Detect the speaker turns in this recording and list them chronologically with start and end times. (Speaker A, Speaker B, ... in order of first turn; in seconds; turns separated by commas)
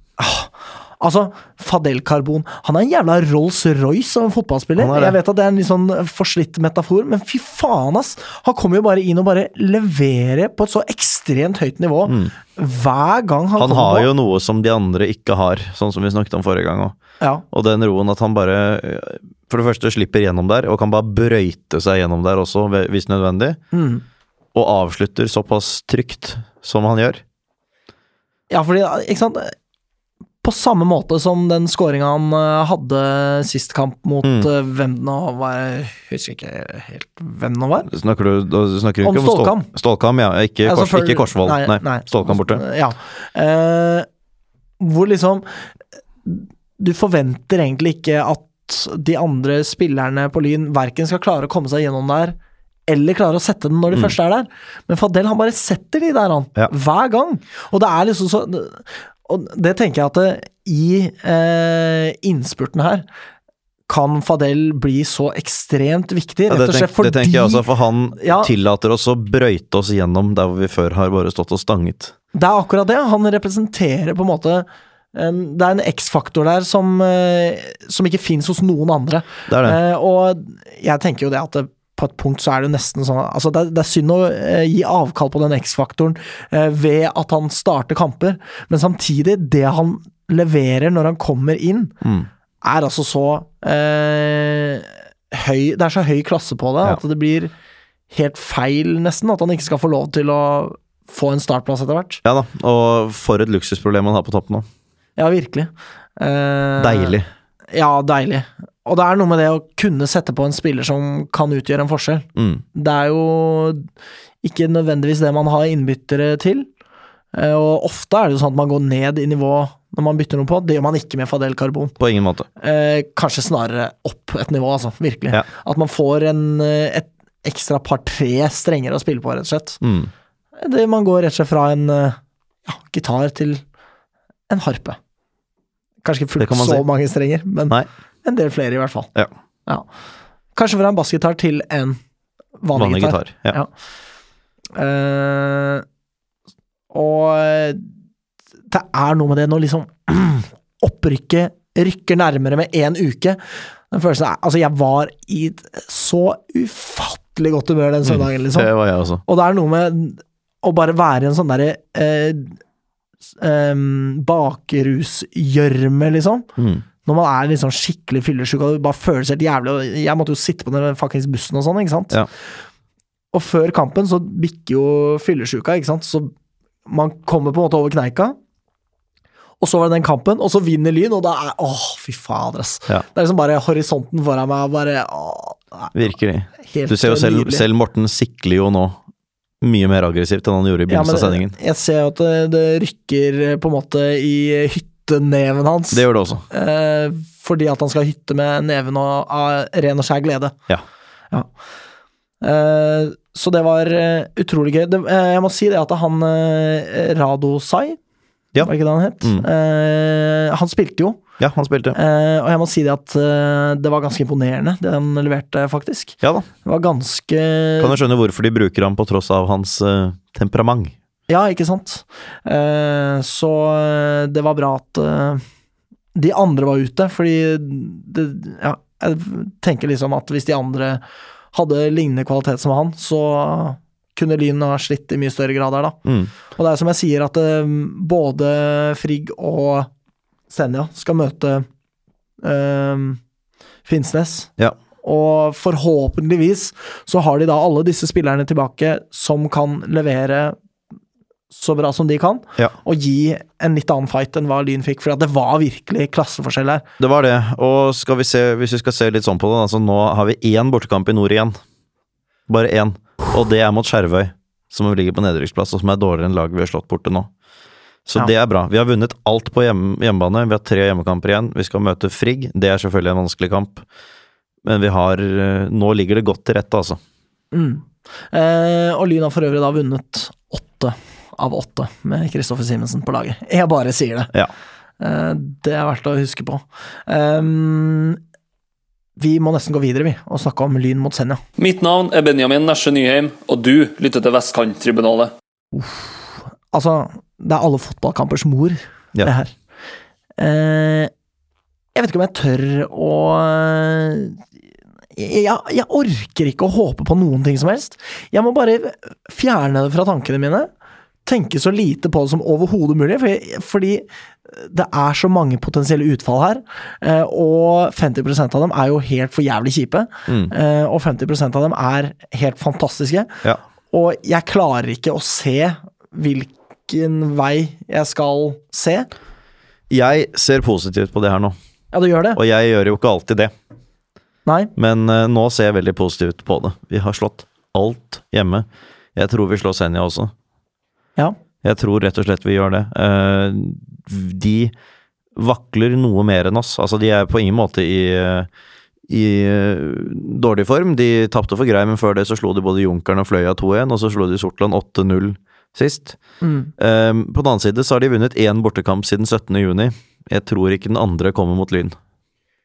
Speaker A: 0.2-14.1, Speaker B: 4.8-5.2, Speaker B: 12.1-12.3, Speaker B: 13.6-16.9, Speaker B: 17.5-23.6, Speaker A: 23.7-24.0, Speaker B: 24.5-27.2, Speaker A: 28.5-29.5, Speaker A: 30.4-37.9, Speaker B: 34.2-34.5, Speaker B: 37.9-42.6, Speaker A: 39.0-39.7, Speaker A: 40.6-44.1, Speaker A: 44.8-45.7, Speaker A: 46.2-63.0, Speaker A: 63.9-67.6, Speaker B: 66.5-72.1, Speaker A: 68.2-68.5, Speaker A: 72.3-91.9, Speaker B: 79.5-79.8, Speaker B: 92.0-92.3, Speaker A: 92.6-97.5, Speaker A: 98.1-102.2, Speaker B: 102.2-104.7, Speaker A: 105.2-107.2, Speaker B: 106.8-107.3, Speaker A: 107.7-113.9, Speaker B: 112.3-112.6, Speaker A: 114.4-116.7, Speaker A: 117.3-122.0, Speaker B: 122.0-122.5, Speaker A: 122.6-129.8, Speaker B: 129.8-130.1, Speaker A: 130.6-133.6, Speaker A: 134.5-135.0, Speaker A: 136.0-139.1, Speaker B: 136.4-136.8, Speaker A: 140.5-142.0, Speaker A: 142.6-143.7, Speaker B: 142.7-143.6, Speaker A: 144.7-145.8, Speaker A: 146.9-147.9, Speaker A: 148.7-158.7, Speaker B: 158.1-159.2, Speaker A: 159.2-162.6, Speaker A: 163.4-166.5, Speaker B: 166.6-166.8, Speaker A: 167.0-172.2, Speaker A: 173.3-176.3, Speaker A: 176.8-178.3, Speaker A: 179.6-185.9, Speaker B: 185.9-189.0, Speaker A: 186.6-187.7, Speaker B: 189.6-191.5, Speaker A: 190.9-200.5, Speaker B: 195.9-196.4, Speaker A: 202.4-208.0, Speaker A: 208.6-211.2, Speaker B: 209.2-209.5, Speaker B: 211.4-212.0, Speaker A: 211.9-218.0, Speaker B: 216.2-216.5, Speaker B: 217.8-220.9, Speaker A: 221.3-225.4, Speaker A: 226.1-236.0, Speaker B: 236.0-236.3, Speaker A: 236.5-239.9, Speaker A: 240.5-241.7, Speaker A: 242.4-243.2, Speaker A: 243.8-244.5, Speaker A: 245.0-250.6, Speaker A: 251.5-256.8, Speaker B: 257.0-261.6, Speaker B: 262.5-267.3, Speaker B: 268.1-273.8, Speaker B: 274.6-277.0, Speaker A: 277.5-284.3, Speaker A: 285.0-288.2, Speaker A: 289.2-291.4, Speaker C: 291.6-295.3, Speaker A: 295.7-296.1, Speaker A: 296.7-299.5, Speaker A: 300.4-301.1, Speaker A: 301.9-304.4, Speaker A: 305.1-310.7, Speaker A: 311.2-329.1, Speaker B: 320.3-320.5, Speaker B: 329.9-331.6, Speaker A: 331.9-332.4, Speaker B: 332.3-333.5, Speaker A: 334.4-334.7, Speaker B: 334.8-340.3, Speaker B: 341.6-344.7, Speaker B: 345.4-348.5, Speaker B: 349.1-356.2, Speaker A: 356.4-356.7, Speaker B: 356.8-361.9